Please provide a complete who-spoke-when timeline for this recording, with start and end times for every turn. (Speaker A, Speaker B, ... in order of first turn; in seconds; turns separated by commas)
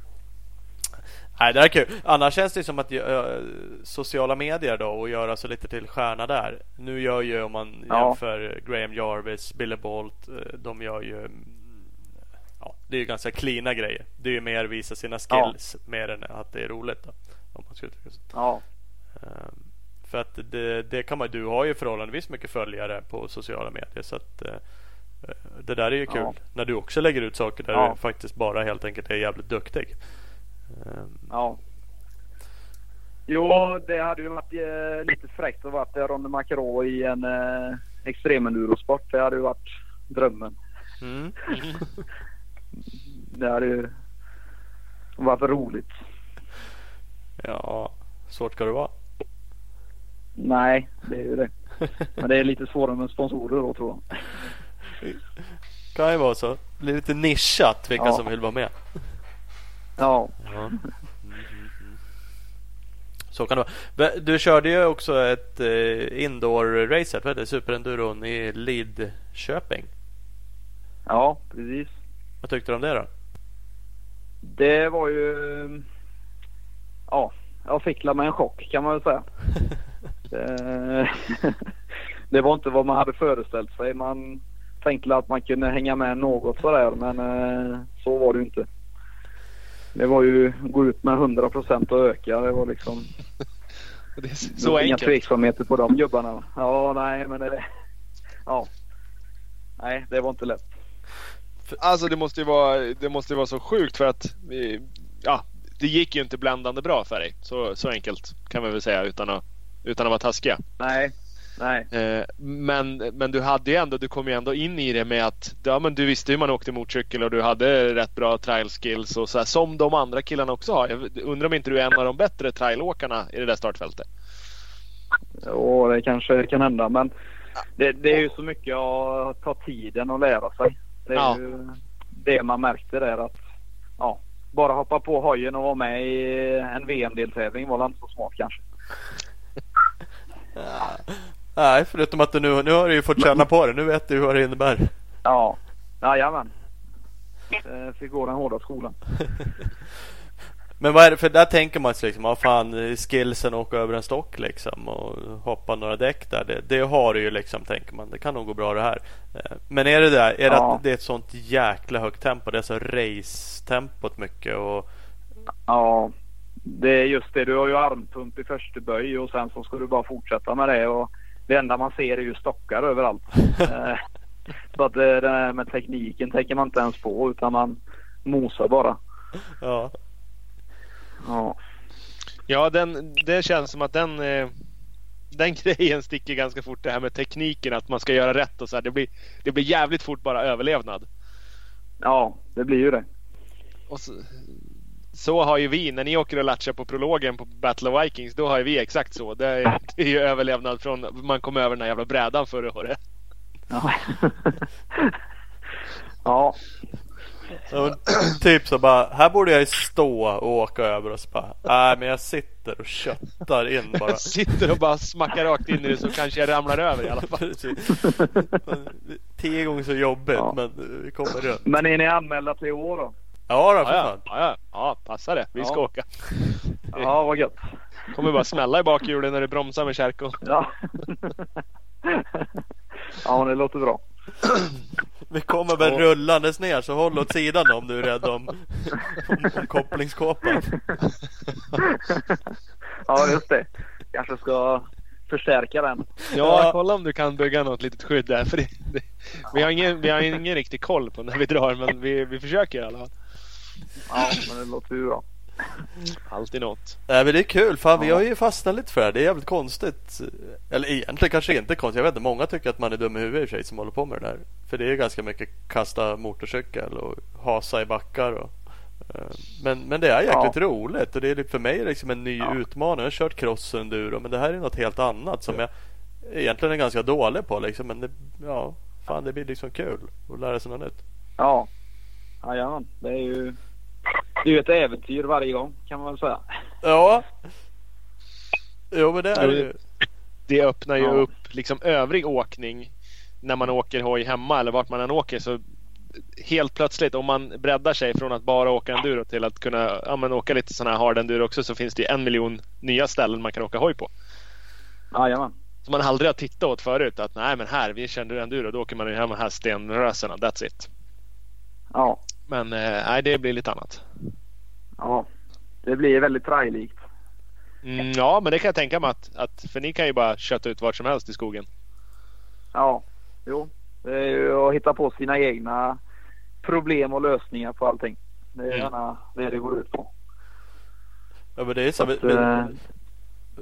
Speaker A: 1.4-11.8, Speaker B: 7.9-8.2, Speaker A: 12.6-18.3, Speaker B: 18.3-18.6, Speaker A: 19.2-24.7, Speaker A: 25.2-30.1, Speaker A: 30.7-31.3, Speaker B: 31.3-31.6, Speaker B: 33.3-40.6, Speaker A: 41.0-41.4, Speaker C: 41.5-41.8, Speaker B: 43.3-43.9, Speaker B: 45.2-45.9, Speaker A: 47.4-48.9, Speaker B: 50.4-51.5, Speaker B: 52.2-54.3, Speaker A: 55.9-59.0, Speaker B: 58.0-58.2, Speaker B: 60.0-60.5, Speaker A: 60.5-62.0, Speaker A: 63.3-69.9, Speaker B: 71.1-71.9, Speaker A: 72.4-73.1, Speaker B: 74.5-75.8, Speaker B: 77.1-79.3, Speaker B: 80.3-81.6, Speaker B: 82.3-88.7, Speaker B: 90.0-93.1, Speaker C: 94.2-95.2, Speaker B: 94.5-97.6, Speaker B: 99.8-100.7, Speaker C: 101.8-110.6, Speaker B: 110.8-111.9, Speaker C: 111.9-124.1, Speaker B: 125.4-127.1, Speaker B: 127.8-133.4, Speaker B: 134.0-138.6, Speaker A: 140.6-144.9, Speaker B: 145.2-146.5, Speaker B: 147.6-149.0, Speaker A: 150.8-164.9, Speaker B: 160.5-160.8, Speaker B: 165.7-166.1, Speaker B: 166.7-174.0, Speaker B: 174.7-179.0, Speaker A: 179.6-179.9, Speaker B: 181.2-181.6, Speaker C: 182.5-184.5, Speaker C: 185.3-191.1, Speaker B: 192.0-193.1, Speaker C: 193.9-194.6, Speaker C: 195.1-203.0, Speaker B: 203.7-205.1, Speaker B: 206.2-206.6, Speaker A: 207.7-214.4, Speaker C: 214.1-217.6, Speaker A: 217.3-221.6, Speaker B: 221.6-223.1, Speaker A: 223.5-224.3, Speaker C: 223.8-226.2, Speaker C: 226.8-227.1, Speaker B: 226.9-227.6, Speaker C: 228.1-230.4, Speaker B: 230.4-231.4, Speaker B: 232.1-232.5, Speaker B: 233.2-234.0, Speaker A: 235.3-240.8, Speaker B: 243.1-246.1, Speaker C: 246.3-253.1, Speaker A: 246.4-246.8, Speaker B: 254.1-255.2, Speaker C: 256.3-257.0, Speaker A: 257.1-275.7, Speaker B: 270.3-270.6, Speaker A: 276.2-281.0, Speaker B: 281.4-281.7, Speaker B: 282.4-283.6, Speaker B: 284.4-286.4, Speaker A: 286.8-287.3, Speaker A: 288.9-289.8, Speaker C: 289.4-289.7, Speaker C: 290.5-295.6, Speaker B: 291.0-291.3, Speaker C: 296.4-304.1, Speaker B: 305.1-305.5, Speaker C: 305.9-310.9, Speaker B: 311.9-312.2, Speaker C: 312.5-314.1, Speaker B: 315.0-315.3, Speaker B: 315.8-317.0, Speaker C: 317.8-321.7, Speaker B: 322.7-326.0, Speaker B: 326.6-330.1, Speaker A: 331.6-332.7, Speaker B: 332.0-332.8